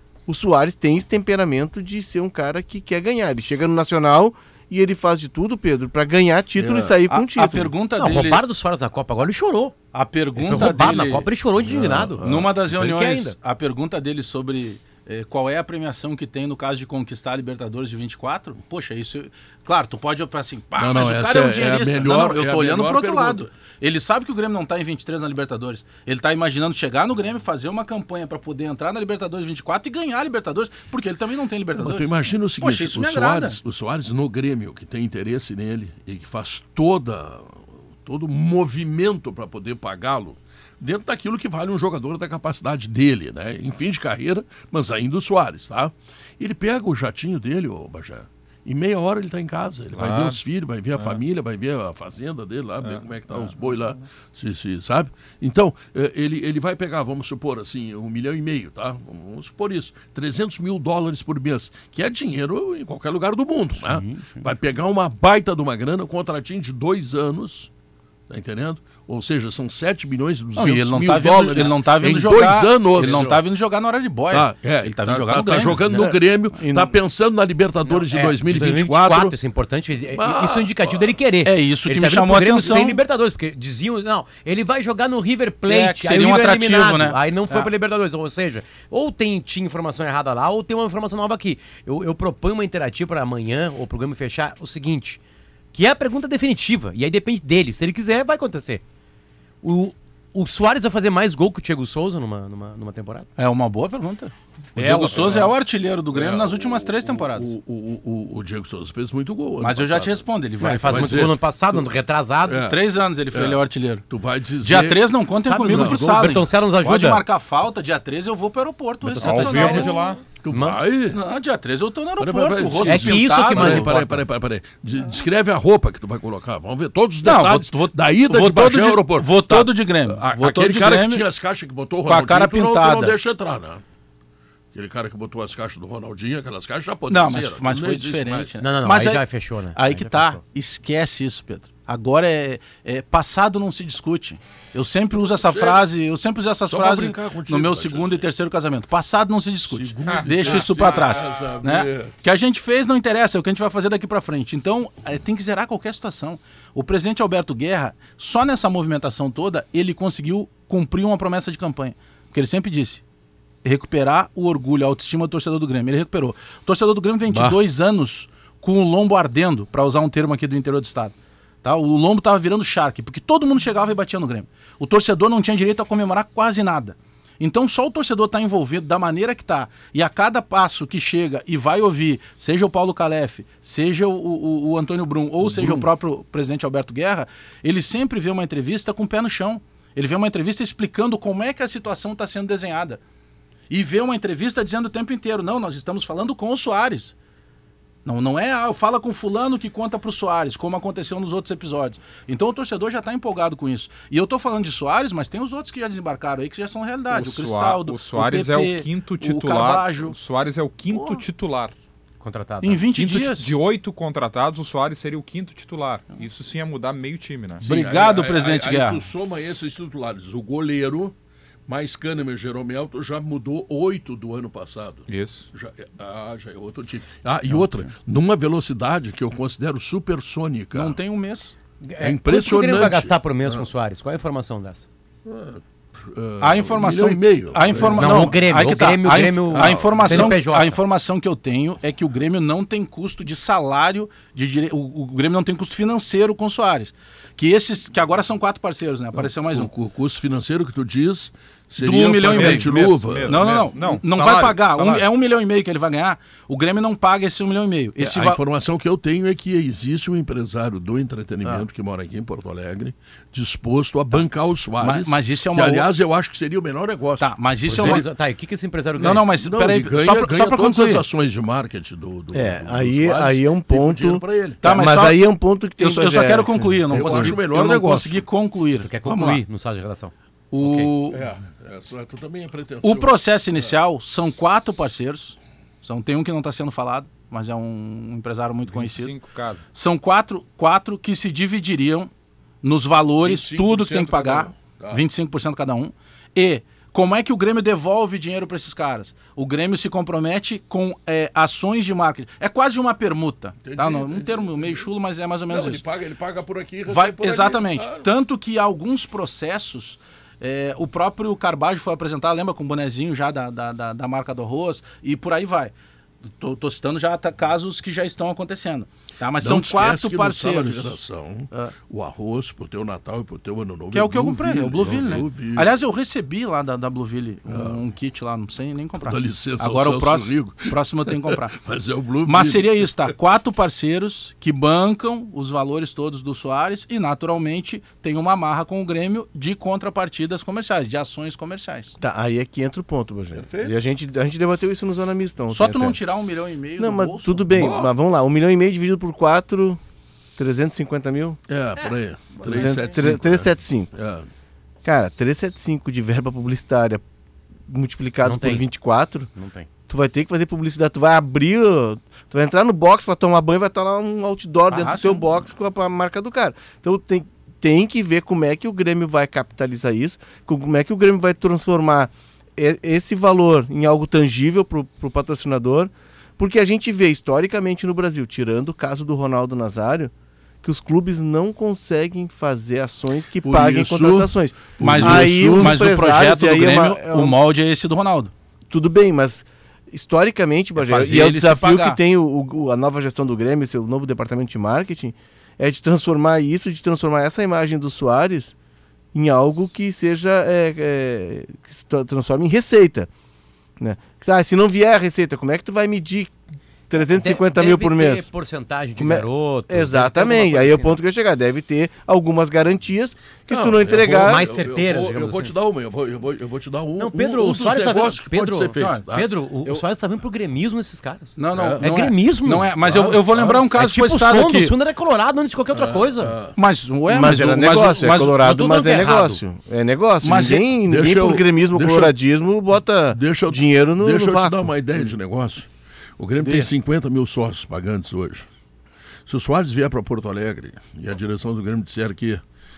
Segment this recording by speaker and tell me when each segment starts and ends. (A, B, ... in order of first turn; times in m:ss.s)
0:00.3-0:07.7 A
0:06.6-0:07.0 B
0:07.1-0:08.4 C
0:08.0-0:09.8 D
0:09.9-0:11.3 C
0:10.4-0:13.4 D
0:11.6-0:12.5 B
0:12.2-0:33.6 C
0:20.8-0:23.5 B
0:31.8-1:07.7 B
0:50.0-0:50.4 E
0:52.8-0:53.5 E
1:03.8-1:04.4 C
1:08.3-1:13.4 B
1:10.6-1:16.9 C
1:14.3-1:19.3 B
1:17.8-1:35.2 D
1:20.2-1:21.2 B
1:21.4-1:23.0 C
1:25.7-1:27.7 C
1:35.7-1:38.8 D
1:39.6-1:43.3 D
1:43.4-1:47.5 C
1:44.8-1:45.5 E
1:45.2-1:45.5 B
1:46.1-1:50.3 B
1:49.6-1:51.3 C
1:50.6-1:52.6 D
1:50.9-1:51.4 B
1:52.5-1:52.8 B
1:52.6-1:54.0 C
1:53.3-1:55.1 B
1:54.6-2:00.0 C
1:55.4-1:57.2 D
1:55.7-1:56.4 B
1:59.0-2:00.8 D
1:59.2-2:00.2 E
1:59.5-2:01.2 B
2:01.1-2:03.9 C
2:02.2-2:13.8 B
2:02.8-2:04.2 D
2:07.2-2:11.2 C
2:12.1-2:13.2 C
2:14.7-2:18.6 B
2:17.1-2:19.2 C
2:18.6-2:20.4 D
2:19.8-2:43.0 C
2:25.2-2:25.9 B
2:26.7-2:28.3 B
2:29.7-2:32.1 B
2:30.0-2:31.3 E
2:43.6-3:13.0 C
2:47.3-2:47.6 B
3:05.4-3:05.9 B
3:13.7-3:17.1 C
3:18.0-3:30.2 C
3:27.1-3:31.7 E
3:32.2-3:32.9 D
3:32.6-3:33.6 C
3:33.0-3:37.6 E
3:37.6-3:39.0 C
3:37.6-3:41.1 B
3:41.7-3:51.0 B
3:45.1-3:45.5 E
3:47.5-3:47.9 C
3:50.7-3:51.6 C
3:51.8-3:54.9 D
3:52.0-3:53.7 B
3:55.3-3:58.4 B
3:56.4-4:09.7 C
3:57.9-4:00.8 D
3:59.5-4:00.4 B
4:09.1-4:13.7 B
4:11.8-4:12.7 C
4:12.2-4:15.1 E
4:13.3-4:18.4 C
4:18.0-4:28.1 B
4:24.8-4:25.9 C
4:27.2-4:28.0 C
4:27.7-4:29.2 D
4:29.0-4:31.0 C
4:29.1-4:34.8 B
4:32.3-4:37.2 A
4:34.6-4:39.4 C
4:36.9-4:38.3 B
4:38.8-4:40.9 D
4:40.5-4:41.2 C
4:41.1-4:43.7 B
4:42.8-4:49.2 C
4:48.7-4:49.6 E
4:49.7-4:52.1 C
4:52.6-5:05.8 C
4:53.2-4:55.0 B
5:03.6-5:04.9 B
5:05.5-5:08.1 B
5:06.9-5:15.7 C
5:16.4-5:21.0 C
5:19.4-5:25.8 B
5:23.9-5:31.6 C
5:27.5-5:27.8 B
5:29.0-5:33.1 B
5:32.2-5:42.0 C
5:42.0-5:46.0 A
5:43.3-5:43.7 B
5:45.5-5:47.6 C
5:46.8-5:49.8 A
5:47.5-5:47.9 B
5:50.4-5:51.4 A
5:51.5-5:54.3 B
5:52.4-5:53.9 A
5:54.8-5:57.0 A
5:57.7-5:59.3 A
5:58.2-5:58.7 D
5:59.3-5:59.7 D
5:59.9-6:27.4 A
6:04.7-6:05.2 C
6:23.4-6:25.9 B
6:24.8-6:28.3 C
6:28.7-6:38.5 A
6:30.8-6:32.0 C
6:39.1-6:43.1 A
6:43.8-6:46.3 A
6:46.9-6:48.3 A
6:47.1-6:51.0 D
6:49.0-6:54.5 A
6:53.5-6:59.3 B
6:54.2-6:55.5 D
6:57.0-7:02.7 D
6:58.8-6:59.0 C
7:01.4-7:04.7 C
7:01.5-7:01.8 B
7:02.8-7:03.7 B
7:03.7-7:06.4 D
7:05.7-7:06.6 B
7:06.6-7:08.4 C
7:07.1-7:14.6 A
7:07.1-7:08.3 B
7:08.3-7:09.4 D
7:10.2-7:10.6 C
7:10.8-7:12.1 B
7:13.1-7:15.7 B
7:16.2-7:18.5 B
7:16.4-7:16.7 C
7:19.3-7:22.4 B